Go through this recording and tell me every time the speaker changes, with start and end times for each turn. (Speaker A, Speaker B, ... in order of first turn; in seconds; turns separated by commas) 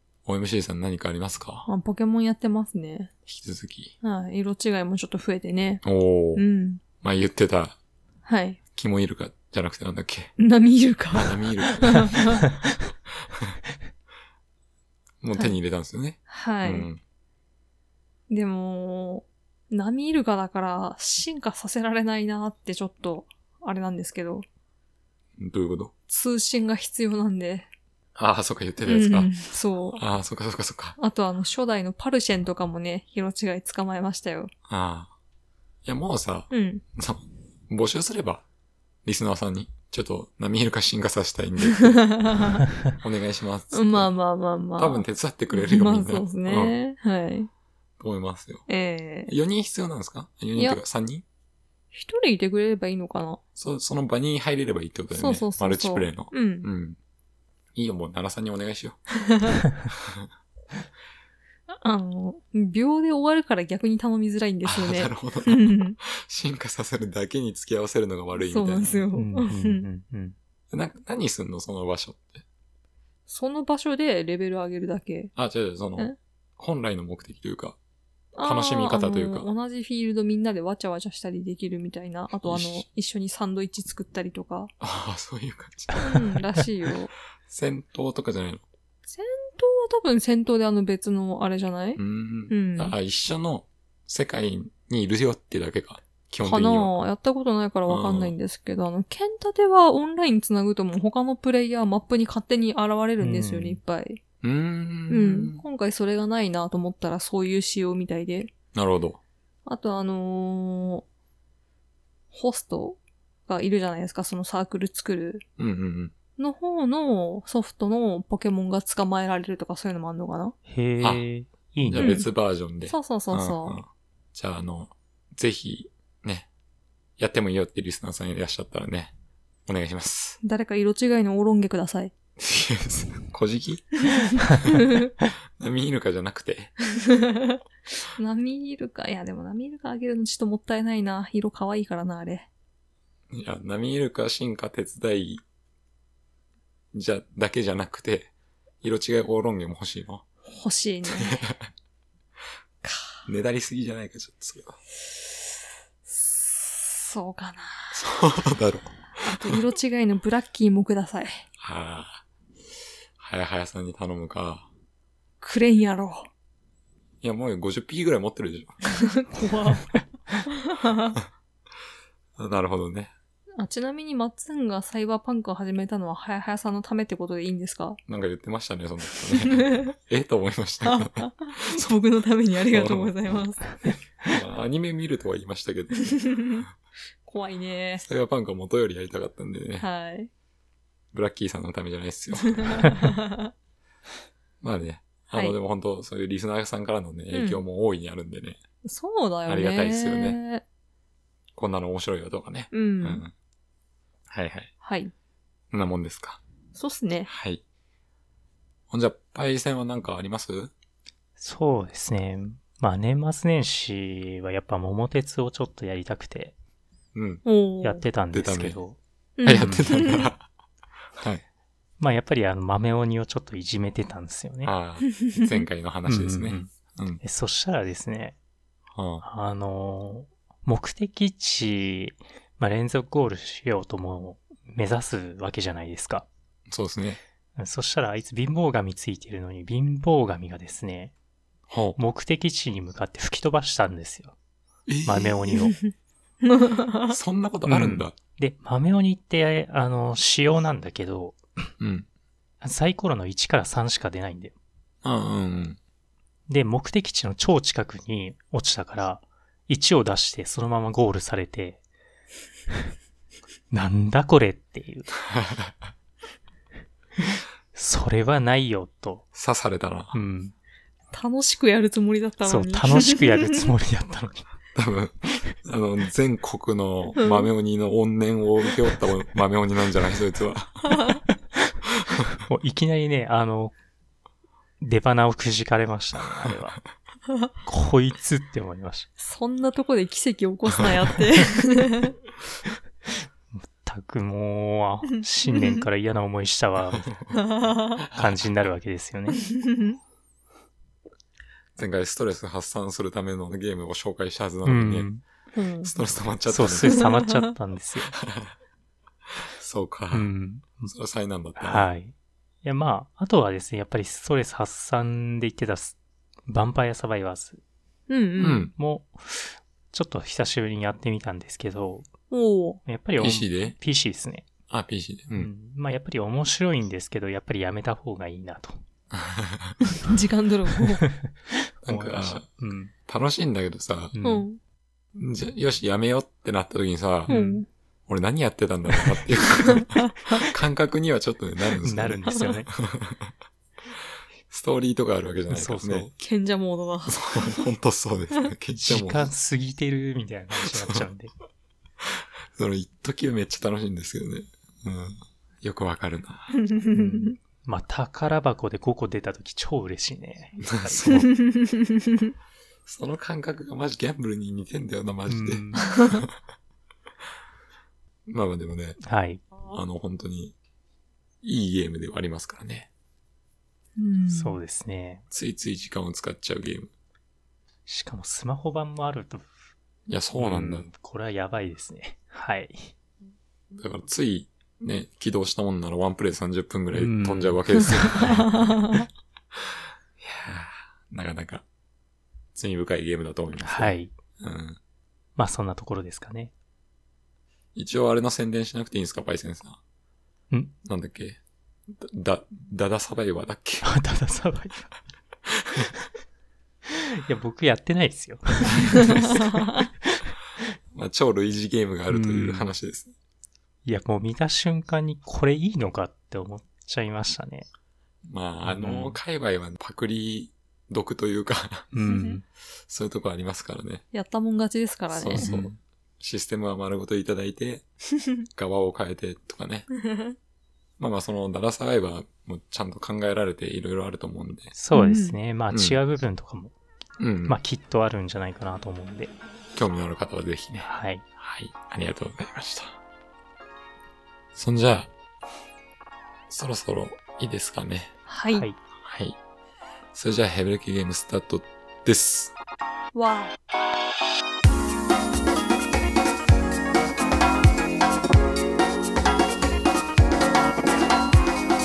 Speaker A: 0.2-1.7, Speaker B: 1.6-3.1, Speaker A: 3.2-3.9, Speaker B: 4.0-5.8, Speaker A: 5.8-6.4, Speaker B: 6.3-6.8, Speaker A: 7.0-7.8, Speaker B: 8.2-8.6, Speaker A: 8.7-10.3, Speaker B: 10.4-12.5, Speaker A: 11.1-12.4, Speaker A: 13.2-13.6, Speaker A: 15.2-17.0, Speaker B: 16.3-16.9, Speaker B: 18.3-24.4, Speaker A: 25.4-25.9, Speaker B: 26.1-27.7, Speaker A: 28.1-29.3, Speaker B: 28.9-30.0, Speaker A: 29.9-31.0, Speaker B: 31.0-34.5, Speaker A: 34.7-35.1, Speaker A: 35.8-38.4, Speaker B: 36.5-36.8, Speaker A: 39.0-42.0, Speaker B: 41.7-42.6, Speaker A: 43.0-44.1, Speaker B: 43.7-47.5, Speaker A: 44.8-46.7, Speaker A: 48.0-48.6, Speaker B: 48.7-49.3, Speaker A: 49.3-51.2, Speaker B: 50.5-50.8, Speaker B: 51.9-53.4, Speaker A: 53.5-57.0, Speaker B: 55.1-56.7, Speaker A: 57.7-59.0, Speaker B: 59.2-59.6, Speaker A: 59.9-60.3, Speaker B: 61.8-66.0, Speaker A: 64.6-69.0, Speaker B: 68.3-69.8, Speaker C: 69.1-70.3, Speaker A: 70.7-72.4, Speaker B: 73.3-75.3, Speaker A: 75.3-77.8, Speaker B: 78.3-84.7, Speaker A: 78.4-79.5, Speaker A: 82.4-82.8, Speaker A: 84.8-86.2, Speaker B: 85.9-87.1, Speaker A: 87.4-88.6, Speaker B: 89.1-92.9, Speaker A: 92.0-96.9, Speaker B: 96.4-104.2, Speaker A: 97.9-98.3, Speaker C: 103.2-103.8, Speaker A: 104.4-105.6, Speaker B: 105.1-108.5, Speaker A: 108.7-109.2, Speaker B: 109.7-111.0, Speaker B: 112.3-115.4, Speaker A: 115.6-116.1, Speaker B: 116.4-120.5, Speaker C: 120.7-122.2, Speaker A: 121.8-126.5, Speaker B: 122.0-122.2, Speaker B: 122.8-123.8, Speaker A: 127.2-129.1, Speaker A: 129.7-130.4, Speaker B: 130.4-132.1, Speaker A: 132.4-134.8, Speaker B: 134.1-135.1, Speaker A: 135.6-136.7, Speaker B: 137.0-142.5, Speaker A: 143.3-145.4, Speaker A: 146.9-148.3, Speaker A: 148.8-150.2, Speaker B: 150.5-151.4, Speaker A: 151.1-151.7, Speaker B: 152.8-153.2, Speaker A: 153.2-154.8, Speaker B: 156.1-158.0, Speaker A: 157.9-159.6, Speaker B: 159.2-161.4, Speaker A: 161.6-162.2, Speaker A: 163.2-164.7, Speaker B: 165.4-166.3, Speaker A: 167.2-168.8, Speaker B: 168.8-169.9, Speaker B: 170.5-171.2, Speaker A: 172.4-173.1, Speaker B: 173.6-178.0, Speaker A: 178.1-182.0, Speaker B: 179.3-179.9, Speaker B: 180.8-183.8, Speaker A: 182.7-183.1, Speaker A: 184.2-186.7, Speaker B: 186.0-186.7, Speaker B: 187.2-188.0, Speaker A: 188.0-189.9, Speaker B: 189.8-190.3, Speaker A: 191.1-193.0, Speaker B: 192.4-193.5, Speaker A: 194.6-198.6, Speaker B: 197.3-197.6, Speaker B: 198.8-200.6, Speaker A: 199.5-200.4, Speaker A: 201.5-203.3, Speaker B: 202.7-203.2, Speaker A: 204.3-204.7, Speaker B: 204.8-205.1, Speaker A: 205.7-206.4, Speaker B: 206.7-207.3, Speaker A: 207.3-207.6, Speaker A: 208.9-210.7, Speaker C: 211.4-216.5, Speaker A: 217.1-217.4, Speaker B: 217.4-218.0, Speaker C: 217.8-219.0, Speaker A: 218.3-218.8, Speaker B: 219.4-220.3, Speaker A: 219.4-220.4, Speaker C: 219.6-219.8, Speaker A: 221.2-221.4, Speaker C: 222.0-224.7, Speaker A: 224.6-227.2, Speaker B: 225.1-225.5, Speaker C: 226.1-228.3, Speaker A: 228.9-229.2, Speaker C: 229.2-236.3, Speaker A: 236.7-237.2, Speaker C: 237.6-241.1, Speaker A: 241.7-242.0, Speaker C: 242.0-244.3, Speaker A: 244.9-245.4, Speaker C: 245.1-245.8, Speaker B: 245.6-245.9, Speaker B: 246.4-247.1, Speaker A: 247.1-248.2, Speaker C: 247.7-251.7, Speaker A: 251.8-252.1, Speaker C: 252.6-254.5, Speaker A: 255.0-255.8, Speaker C: 256.5-261.8, Speaker C: 263.7-265.1, Speaker A: 265.3-265.7, Speaker C: 267.2-269.2, Speaker A: 269.3-270.2, Speaker C: 270.1-270.5, Speaker B: 271.1-273.4, Speaker C: 272.4-274.5, Speaker A: 274.7-280.9, Speaker B: 277.2-277.5, Speaker B: 280.8-281.2, Speaker C: 282.4-283.7, Speaker C: 284.8-286.8, Speaker C: 287.6-289.1, Speaker B: 289.2-292.1, Speaker C: 293.8-297.2, Speaker B: 295.5-295.8, Speaker A: 297.0-297.2, Speaker B: 297.3-298.0, Speaker A: 298.0-298.4, Speaker C: 298.1-299.4, Speaker B: 299.4-300.0, Speaker A: 301.8-305.1, Speaker C: 304.6-305.2, Speaker B: 305.5-305.9, Speaker A: 305.8-307.1, Speaker C: 306.5-308.2, Speaker A: 308.1-308.5, Speaker A: 309.3-310.3, Speaker C: 310.1-310.9, Speaker A: 310.8-311.9, Speaker C: 311.6-312.1, Speaker C: 312.6-317.6, Speaker B: 318.1-318.7, Speaker A: 318.4-318.7, Speaker C: 318.7-322.1, Speaker B: 322.3-322.8, Speaker C: 322.9-324.5, Speaker A: 323.2-323.8, Speaker A: 324.7-325.5, Speaker C: 325.3-328.8, Speaker A: 329.1-329.8, Speaker B: 329.9-331.0, Speaker C: 331.0-332.9, Speaker A: 331.8-332.5, Speaker A: 333.1-334.1, Speaker C: 334.1-334.4, Speaker B: 334.2-334.6, Speaker A: 335.1-337.3, Speaker C: 337.3-337.6, Speaker B: 337.3-337.7, Speaker A: 338.1-343.3, Speaker B: 339.6-340.4, Speaker C: 341.8-342.7, Speaker A: 344.5-346.1, Speaker C: 345.5-346.1, Speaker B: 346.2-347.6, Speaker A: 347.1-349.3, Speaker C: 348.8-351.3, Speaker A: 350.6-351.0, Speaker A: 352.0-356.6, Speaker B: 356.5-357.4, Speaker C: 356.9-361.1, Speaker A: 360.6-361.3, Speaker B: 361.1-362.3, Speaker A: 362.9-366.3, Speaker C: 365.3-365.9, Speaker B: 365.8-366.2, Speaker A: 368.3-369.0, Speaker C: 369.0-369.4, Speaker A: 369.6-370.5, Speaker A: 371.4-372.9, Speaker B: 374.0-374.6, Speaker C: 374.3-375.2, Speaker A: 375.3-376.9, Speaker C: 377.9-379.5, Speaker A: 380.1-380.9, Speaker C: 380.4-382.9, Speaker A: 383.7-389.0, Speaker C: 386.9-388.3, Speaker B: 388.4-389.0, Speaker A: 389.5-391.6, Speaker A: 392.5-394.8, Speaker C: 393.6-394.1, Speaker C: 395.4-396.5, Speaker A: 397.7-399.8, Speaker A: 400.8-403.9, Speaker C: 403.8-404.9, Speaker A: 405.5-405.9, Speaker C: 406.9-410.3, Speaker A: 408.9-409.4, Speaker B: 409.0-409.8, Speaker A: 410.9-413.1, Speaker C: 412.1-412.7, Speaker C: 413.8-417.7, Speaker A: 418.3-421.9, Speaker C: 418.6-419.2, Speaker C: 421.9-422.4, Speaker B: 422.0-422.4, Speaker A: 422.9-424.0, Speaker B: 424.1-425.5, Speaker A: 425.1-427.8, Speaker C: 425.4-425.7, Speaker A: 428.5-429.9, Speaker B: 430.0-430.3, Speaker A: 431.0-434.7, Speaker C: 434.7-436.7, Speaker B: 434.9-435.4, Speaker A: 435.7-436.0, Speaker A: 437.2-437.6, Speaker C: 437.4-439.3, Speaker A: 439.8-443.0, Speaker C: 440.8-441.2, Speaker A: 444.5-445.1, Speaker A: 446.5-448.1, Speaker B: 448.3-448.6, Speaker A: 449.0-449.4, Speaker A: 450.1-452.5, Speaker B: 453.1-453.5